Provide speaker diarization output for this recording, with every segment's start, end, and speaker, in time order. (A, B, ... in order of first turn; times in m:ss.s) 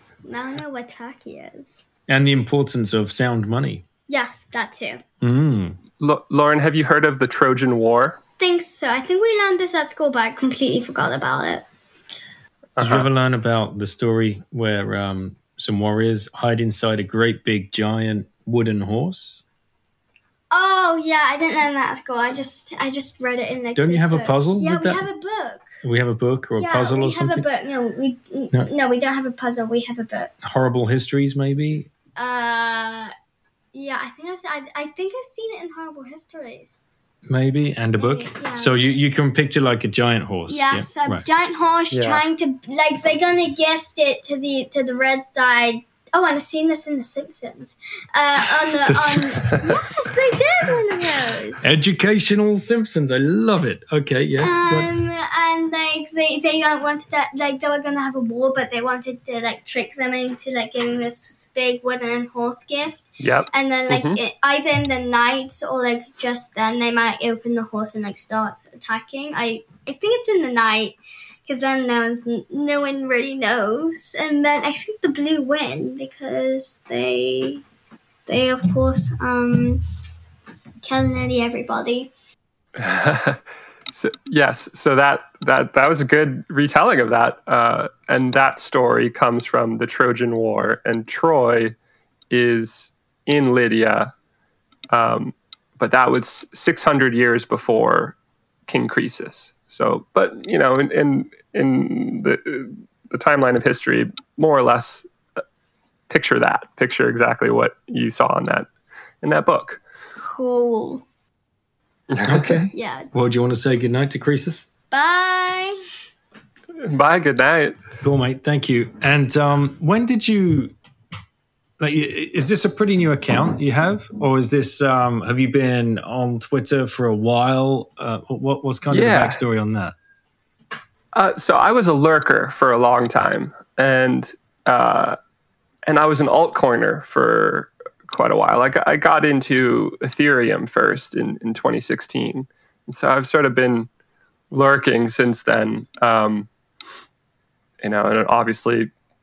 0:00.2-0:01.7 A
0:02.1-0:03.8 B
0:04.1-0:05.0 A
0:05.2-0:05.8 B
0:06.0-0:08.2 C
0:08.4-0:11.6 A
0:12.8-0:13.1 C
0:12.8-0:19.4 B
0:20.5-0:25.8 A
0:23.7-0:25.0 B
0:25.8-0:27.4 B
0:26.6-0:30.3 A
0:30.4-0:31.9 B
0:32.2-0:33.1 A
0:33.7-0:36.8 A
0:37.3-0:41.2 B
0:38.0-0:38.8 A
0:40.5-0:51.6 A
0:41.9-0:42.2 C
0:49.1-0:49.8 C
0:51.6-0:54.9 B
0:54.4-1:17.6 A
1:03.2-1:04.2 C
1:18.3-1:19.8 A
1:20.8-1:22.1 A
1:22.8-1:31.8 C
1:32.3-1:34.1 C
1:34.9-1:38.2 C
1:38.7-1:45.1 C
1:46.1-1:48.7 C
1:49.2-1:49.8 C
1:50.2-1:51.0 A
1:52.1-1:52.6 C
1:52.2-1:54.7 B
1:52.7-1:53.1 A
1:54.9-1:55.8 A
1:56.8-1:57.8 C
1:58.0-2:00.7 B
2:01.8-2:09.9 B
2:08.9-2:09.4 C
2:11.1-2:15.2 C
2:15.9-2:23.9 C
2:24.5-2:26.5 C
2:27.8-2:28.9 C